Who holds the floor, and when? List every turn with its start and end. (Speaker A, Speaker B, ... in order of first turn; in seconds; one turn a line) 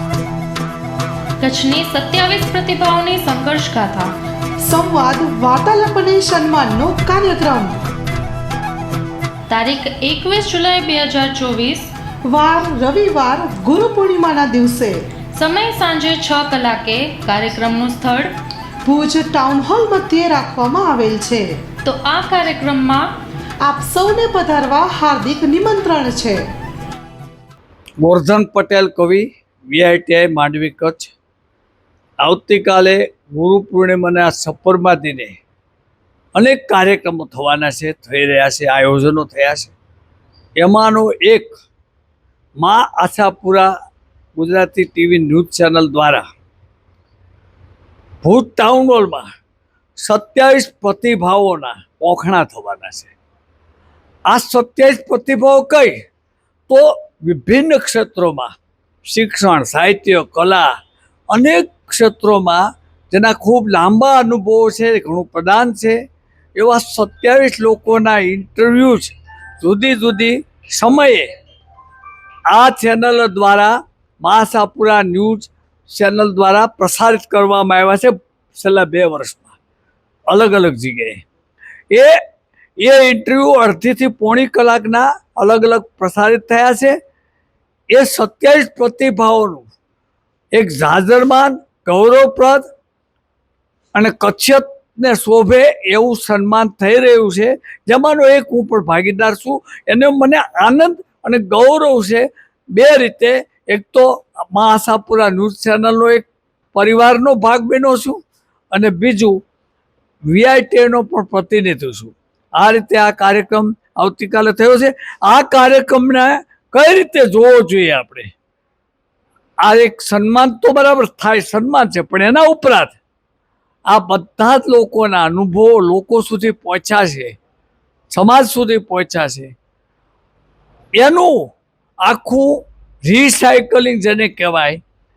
Speaker A: 1.4-4.1
Speaker B: 4.6-7.8
Speaker A: 9.5-11.9
Speaker B: 12.3-14.9
Speaker A: 15.3-18.3
Speaker B: 18.8-21.5
Speaker A: 21.8-23.1
Speaker B: 23.6-26.4
Speaker C: 28.0-31.1
Speaker C: 32.2-35.4
Speaker C: 36.3-39.7
Speaker C: 40.6-41.5
Speaker C: 42.6-43.7
Speaker C: 44.4-46.2
Speaker C: 48.2-49.3
Speaker C: 50.0-53.1
Speaker C: 54.3-56.0
Speaker C: 56.7-58.5
Speaker C: 59.1-60.7
Speaker C: 61.3-66.0
Speaker C: 66.5-71.3
Speaker C: 72.5-79.5
Speaker C: 80.3-81.2
Speaker C: 81.9-82.2
Speaker C: 82.8-87.0
Speaker C: 87.9-89.7
Speaker C: 90.5-92.6
Speaker C: 93.9-108.2
Speaker C: 108.7-109.4
Speaker C: 110.3-118.3
Speaker C: 119.6-123.0
Speaker C: 123.9-127.3
Speaker C: 128.1-129.5
Speaker C: 130.9-134.8